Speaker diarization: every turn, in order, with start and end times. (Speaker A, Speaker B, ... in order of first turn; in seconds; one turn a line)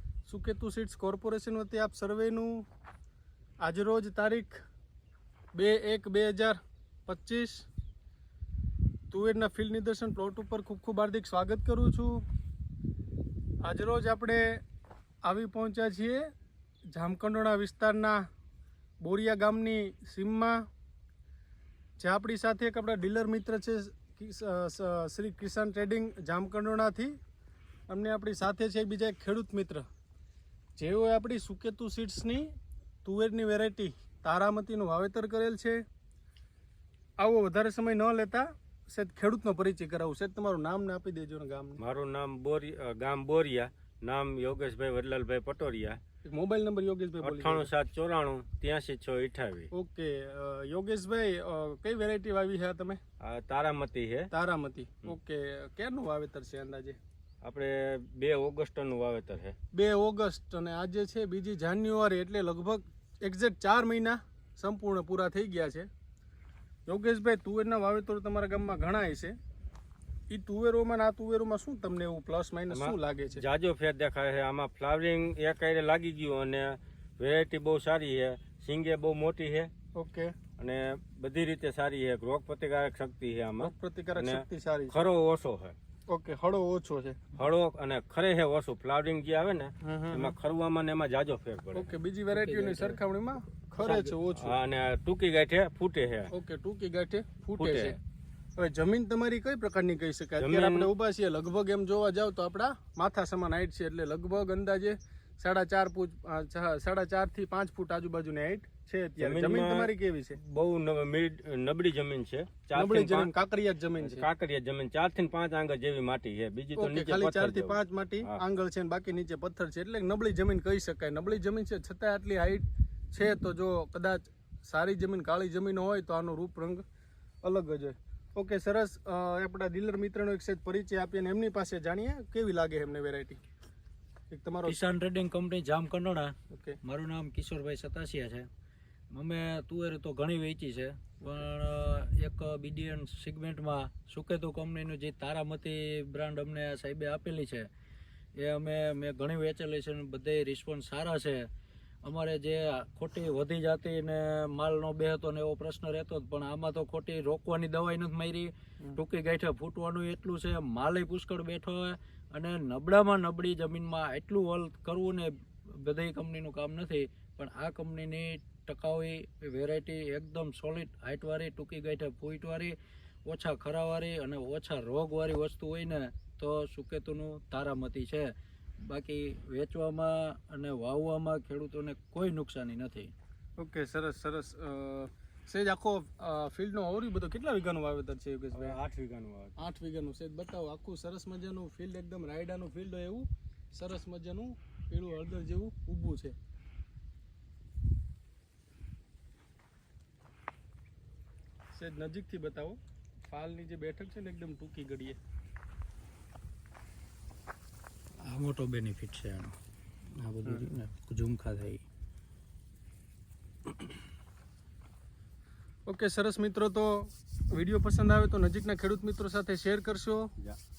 Speaker A: 0.2-2.6
Speaker A: 3.6-4.6
Speaker A: 5.5-7.6
Speaker A: 9.1-12.2
Speaker A: 13.6-14.6
Speaker A: 15.2-16.2
Speaker A: 16.9-18.2
Speaker A: 19.0-20.6
Speaker A: 22.0-27.1
Speaker A: 27.9-29.8
Speaker A: 30.8-32.5
Speaker A: 33.0-35.8
Speaker A: 37.2-41.8
Speaker B: 41.8-46.0
Speaker A: 46.2-47.7
Speaker B: 47.2-49.7
Speaker A: 49.7-53.0
Speaker B: 53.2-54.3
Speaker A: 54.3-57.0
Speaker B: 57.4-59.5
Speaker A: 59.7-65.9
Speaker A: 66.9-69.3
Speaker A: 70.3-73.4
Speaker B: 72.7-79.7
Speaker A: 79.9-80.3
Speaker B: 80.6-85.8
Speaker A: 83.6-85.0
Speaker A: 86.1-87.2
Speaker B: 87.3-91.9
Speaker A: 89.8-90.3
Speaker A: 91.7-94.5
Speaker C: 92.3-93.0
Speaker B: 93.8-96.3
Speaker A: 96.3-98.0
Speaker B: 97.6-98.0
Speaker A: 98.6-110.4
Speaker B: 100.4-100.9
Speaker B: 109.2-113.3
Speaker A: 112.7-114.3
Speaker B: 114.0-118.4
Speaker A: 116.8-126.8
Speaker A: 127.4-133.4
Speaker A: 134.3-134.8
Speaker C: 134.7-138.5
Speaker A: 136.5-136.8
Speaker C: 139.1-147.7
Speaker C: 148.3-151.5
Speaker C: 152.0-178.3
Speaker C: 178.8-183.1
Speaker A: 183.6-188.8
Speaker B: 188.5-189.6
Speaker A: 189.6-196.3
Speaker A: 201.7-205.2
Speaker C: 208.2-209.6
Speaker C: 210.2-211.8
Speaker A: 215.8-220.3